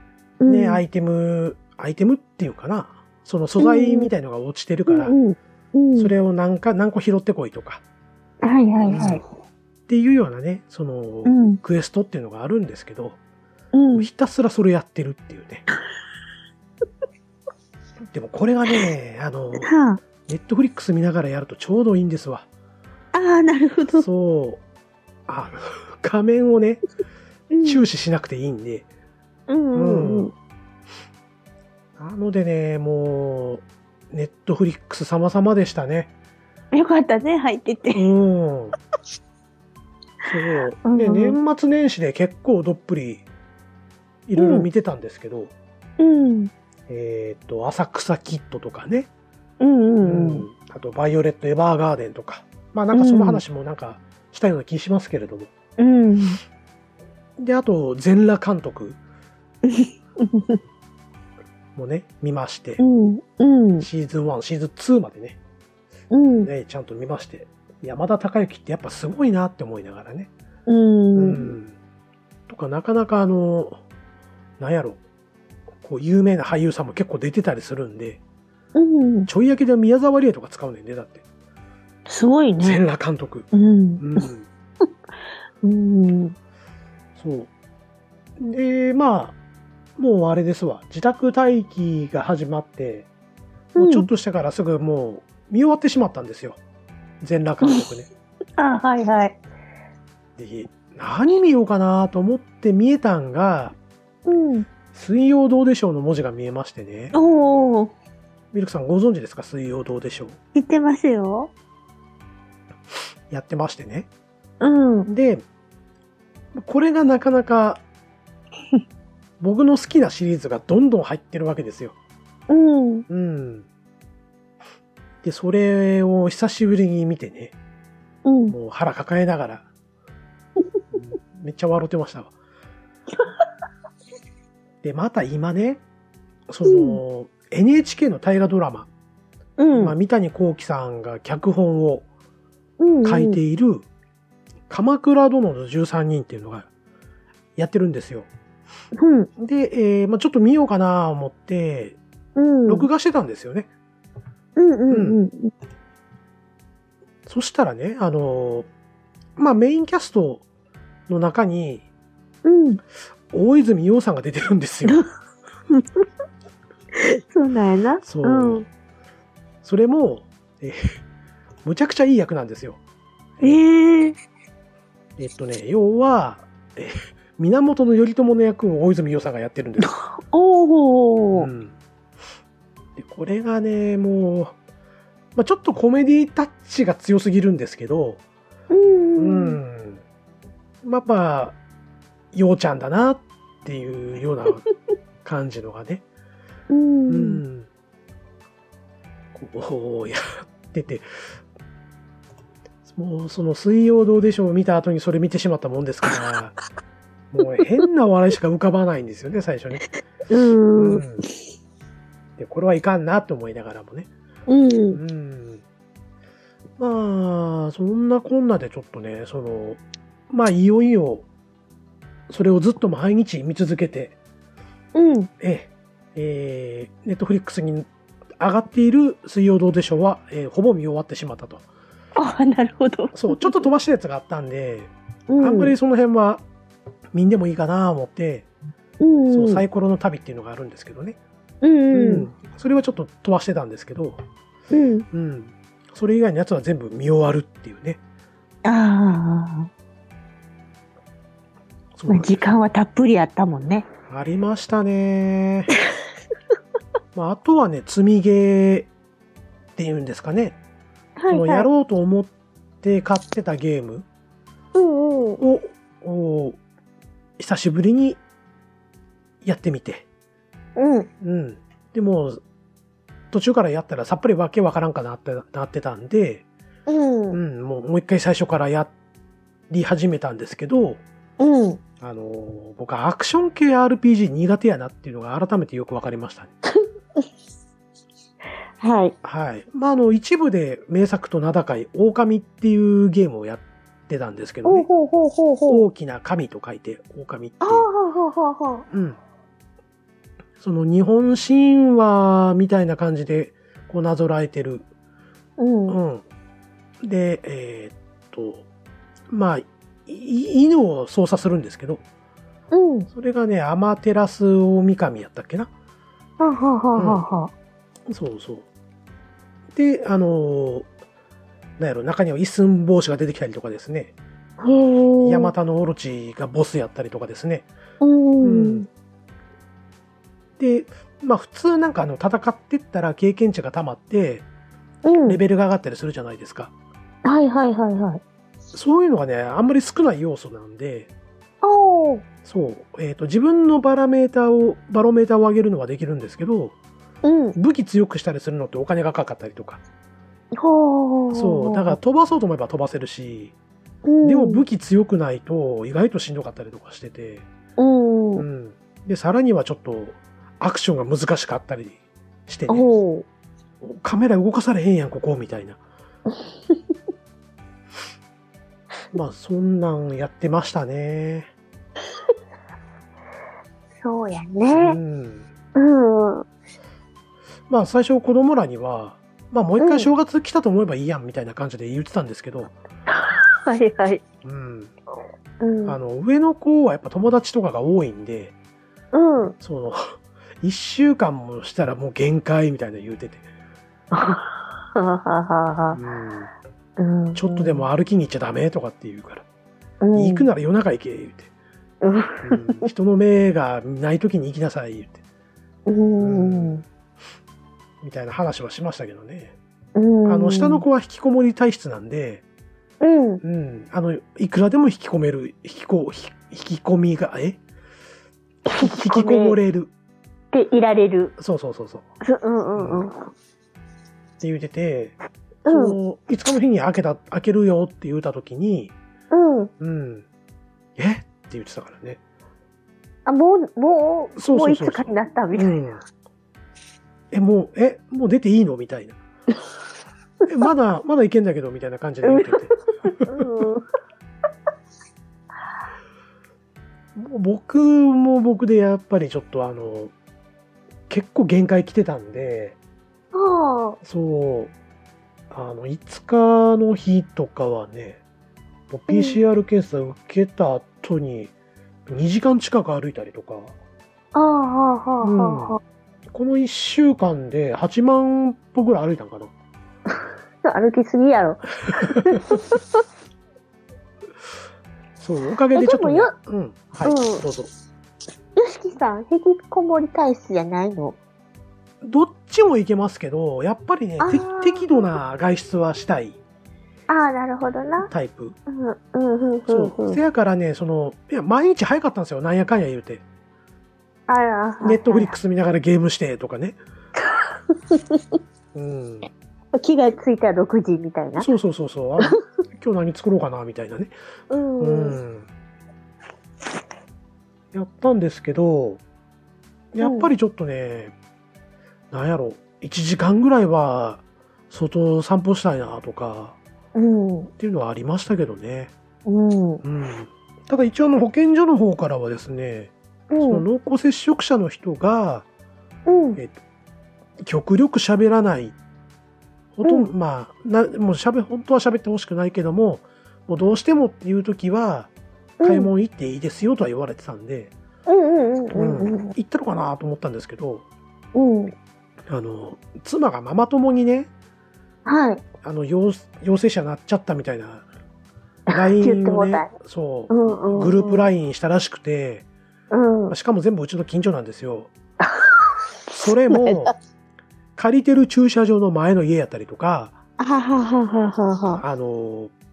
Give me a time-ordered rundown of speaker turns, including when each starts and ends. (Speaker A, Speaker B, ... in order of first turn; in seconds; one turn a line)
Speaker A: 0.4-0.8
Speaker B: 0.5-5.1
Speaker A: 3.6-4.1
Speaker A: 4.9-6.1
Speaker B: 6.0-7.8
Speaker A: 8.4-9.2
Speaker B: 8.8-9.2
Speaker B: 9.9-13.2
Speaker A: 11.2-11.6
Speaker A: 13.7-14.1
Speaker B: 13.9-15.6
Speaker B: 18.0-19.7
Speaker A: 19.6-20.0
Speaker B: 20.2-22.5
Speaker A: 23.1-24.1
Speaker B: 23.9-24.6
Speaker B: 25.3-26.8
Speaker A: 27.5-27.8
Speaker B: 27.6-28.9
Speaker A: 29.5-30.3
Speaker B: 29.7-30.3
Speaker B: 32.0-36.1
Speaker A: 36.7-38.0
Speaker B: 37.9-38.7
Speaker B: 40.2-43.2
Speaker A: 40.8-41.4
Speaker B: 44.3-45.5
Speaker A: 44.4-44.7
Speaker A: 46.0-46.5
Speaker B: 46.9-49.1
Speaker A: 49.6-50.5
Speaker B: 50.0-55.5
Speaker A: 52.9-53.4
Speaker A: 55.8-56.4
Speaker B: 57.4-59.0
Speaker A: 59.6-60.6
Speaker B: 61.8-62.8
Speaker A: 62.8-63.9
Speaker B: 63.8-65.4
Speaker A: 66.1-66.5
Speaker B: 66.4-70.3
Speaker A: 70.7-71.5
Speaker B: 71.1-71.7
Speaker B: 72.5-73.8
Speaker B: 74.6-75.0
Speaker B: 75.8-78.2
Speaker A: 78.7-79.3
Speaker B: 79.3-81.2
Speaker A: 82.1-82.8
Speaker B: 82.6-83.5
Speaker A: 83.5-84.3
Speaker B: 84.0-84.5
Speaker A: 85.6-86.3
Speaker B: 87.2-87.5
Speaker B: 88.4-89.3
Speaker B: 90.0-93.1
Speaker A: 93.8-94.1
Speaker B: 93.8-96.6
Speaker B: 97.2-98.1
Speaker A: 98.6-99.4
Speaker B: 100.4-103.7
Speaker A: 104.2-104.7
Speaker B: 104.9-107.1
Speaker A: 107.1-107.9
Speaker B: 108.5-110.4
Speaker A: 110.5-111.5
Speaker B: 113.3-114.1
Speaker A: 114.6-115.1
Speaker B: 115.1-115.4
Speaker B: 116.5-117.8
Speaker B: 119.4-121.9
Speaker A: 122.5-123.0
Speaker B: 123.1-123.7
Speaker B: 125.2-127.5
Speaker A: 128.2-128.5
Speaker B: 128.5-129.7
Speaker B: 130.9-132.3
Speaker B: 134.8-135.8
Speaker B: 136.5-138.9
Speaker A: 136.6-137.0
Speaker A: 139.6-139.9
Speaker B: 139.7-142.0
Speaker A: 142.8-143.4
Speaker B: 143.0-143.9
Speaker B: 144.7-146.7
Speaker B: 147.6-148.3
Speaker A: 148.9-149.3
Speaker B: 149.4-152.0
Speaker A: 152.3-152.9
Speaker B: 152.7-153.7
Speaker A: 154.6-155.5
Speaker B: 154.9-155.2
Speaker B: 157.2-158.7
Speaker B: 159.4-160.4
Speaker B: 161.1-161.8
Speaker A: 162.4-162.8
Speaker B: 163.3-165.0
Speaker A: 166.9-168.7
Speaker B: 168.0-168.6
Speaker B: 169.6-170.9
Speaker B: 171.6-172.8
Speaker A: 173.4-174.2
Speaker B: 175.2-179.9
Speaker A: 179.8-181.5
Speaker B: 181.3-181.7
Speaker B: 183.0-184.6
Speaker B: 185.3-188.2
Speaker A: 188.7-189.6
Speaker B: 189.2-190.0
Speaker B: 190.8-191.6
Speaker B: 192.3-194.7
Speaker B: 195.2-196.0
Speaker A: 196.7-197.4
Speaker B: 197.1-197.7
Speaker B: 199.3-201.3
Speaker B: 202.9-206.6
Speaker B: 207.3-209.9
Speaker A: 210.3-211.0
Speaker B: 210.8-211.2
Speaker B: 212.4-214.1
Speaker A: 214.5-215.0
Speaker B: 214.9-215.6
Speaker B: 216.8-221.2
Speaker B: 222.3-224.1
Speaker A: 224.9-225.3
Speaker B: 225.4-231.6
Speaker A: 232.2-233.7
Speaker B: 233.1-236.4
Speaker A: 235.3-235.7
Speaker B: 237.1-238.5
Speaker A: 239.0-239.6
Speaker B: 239.3-241.2
Speaker A: 241.6-242.3
Speaker B: 241.9-244.2
Speaker A: 244.7-245.1
Speaker B: 245.1-248.0
Speaker A: 248.6-249.7
Speaker B: 252.0-252.4
Speaker A: 252.1-253.9
Speaker B: 254.1-255.7
Speaker B: 257.1-258.9
Speaker B: 259.8-260.6
Speaker A: 261.2-261.7
Speaker B: 261.3-264.1
Speaker A: 264.7-265.4
Speaker B: 265.4-266.6
Speaker B: 267.4-268.2
Speaker B: 269.4-270.1
Speaker A: 270.8-271.1
Speaker B: 271.2-272.4
Speaker B: 273.3-276.4
Speaker A: 276.9-277.4
Speaker B: 277.3-278.9
Speaker B: 279.7-281.0
Speaker A: 281.4-281.8
Speaker B: 282.0-286.5
Speaker A: 288.8-289.1
Speaker B: 289.2-294.9
Speaker A: 294.6-295.8
Speaker B: 295.7-297.9
Speaker A: 297.6-298.9
Speaker B: 298.9-299.2
Speaker B: 300.6-304.9
Speaker A: 305.6-306.0
Speaker B: 305.9-306.2
Speaker B: 307.0-308.6
Speaker B: 309.3-312.0
Speaker A: 312.7-313.1
Speaker B: 313.1-315.7
Speaker A: 316.4-317.5
Speaker B: 316.9-317.2
Speaker B: 318.1-318.6
Speaker B: 319.7-320.9
Speaker B: 321.8-324.1
Speaker A: 324.6-325.5
Speaker B: 325.2-327.7
Speaker A: 328.0-328.9
Speaker B: 328.4-328.9
Speaker B: 330.6-334.4
Speaker A: 335.0-335.4
Speaker B: 335.2-336.7
Speaker A: 337.2-338.2
Speaker B: 338.7-341.1
Speaker A: 341.6-342.2
Speaker B: 342.4-346.7
Speaker A: 347.2-347.6
Speaker B: 347.6-349.8
Speaker A: 350.6-352.0
Speaker B: 351.3-353.5
Speaker A: 354.1-354.6
Speaker B: 354.2-357.5
Speaker A: 357.8-358.4
Speaker B: 358.4-362.9
Speaker A: 362.7-363.2
Speaker B: 363.8-365.8
Speaker A: 366.4-366.8
Speaker B: 369.1-371.5
Speaker A: 374.0-375.0
Speaker B: 374.7-375.4
Speaker A: 375.7-376.4
Speaker B: 377.7-382.7
Speaker A: 379.8-380.1
Speaker A: 383.1-384.2
Speaker B: 384.4-384.9
Speaker A: 385.6-386.0
Speaker B: 385.8-388.5
Speaker A: 389.1-389.5
Speaker B: 389.6-393.4
Speaker A: 394.1-396.0
Speaker B: 395.9-396.5
Speaker A: 397.0-397.9
Speaker B: 397.3-399.4
Speaker A: 400.0-400.5
Speaker B: 400.1-401.5
Speaker A: 402.0-402.9
Speaker B: 402.4-405.2
Speaker A: 405.9-406.8
Speaker B: 406.2-406.8
Speaker B: 408.0-409.5
Speaker A: 409.9-410.8
Speaker B: 410.2-412.4
Speaker A: 413.0-413.4
Speaker B: 413.4-417.6
Speaker A: 418.6-419.6
Speaker B: 418.7-419.9
Speaker A: 420.5-421.3
Speaker B: 421.4-422.1
Speaker A: 422.2-423.3
Speaker B: 422.8-423.0
Speaker B: 424.4-425.1
Speaker A: 425.6-426.0
Speaker B: 425.7-428.9
Speaker A: 429.3-429.7
Speaker B: 429.8-430.2
Speaker B: 431.0-432.2
Speaker A: 433.2-435.8
Speaker B: 434.4-436.0
Speaker B: 437.3-439.2
Speaker B: 440.5-442.7
Speaker A: 442.2-443.8
Speaker B: 447.1-450.1
Speaker B: 451.1-452.8
Speaker A: 453.3-454.0
Speaker B: 454.0-454.7
Speaker B: 455.5-458.2
Speaker B: 458.9-461.5
Speaker A: 459.1-459.4
Speaker B: 462.1-463.7
Speaker A: 464.3-465.8
Speaker B: 465.2-465.8
Speaker B: 466.3-469.5
Speaker A: 470.6-473.0
Speaker B: 475.2-477.7
Speaker A: 475.7-476.3
Speaker A: 477.0-477.4
Speaker A: 478.6-481.2
Speaker B: 482.0-486.4
Speaker A: 484.2-484.9
Speaker A: 487.1-488.1
Speaker B: 488.1-488.6
Speaker A: 488.7-490.2
Speaker B: 489.7-493.2
Speaker A: 494.3-495.3
Speaker B: 494.8-496.8
Speaker A: 497.2-498.2
Speaker B: 498.7-499.3
Speaker A: 499.7-501.5
Speaker B: 501.4-504.1
Speaker A: 504.5-505.2
Speaker B: 504.8-505.5
Speaker B: 507.7-509.0
Speaker B: 509.9-511.1
Speaker A: 510.0-510.3
Speaker B: 512.1-516.6
Speaker A: 516.9-517.5
Speaker B: 517.6-518.9
Speaker A: 519.2-519.8
Speaker B: 519.8-525.5
Speaker A: 523.3-523.6
Speaker A: 526.1-526.4
Speaker B: 527.4-528.8
Speaker B: 529.8-535.1
Speaker A: 535.6-535.9
Speaker B: 535.6-537.7
Speaker A: 538.1-539.3
Speaker B: 538.7-540.8
Speaker A: 541.3-541.7
Speaker B: 542.3-544.3
Speaker A: 545.0-545.4
Speaker B: 545.6-547.9
Speaker A: 548.7-549.7
Speaker B: 548.7-552.5
Speaker A: 550.3-551.2
Speaker A: 552.9-553.3
Speaker B: 553.3-554.9
Speaker A: 555.2-556.9
Speaker B: 556.2-556.9
Speaker B: 557.8-560.2
Speaker A: 560.4-561.8
Speaker B: 561.8-562.5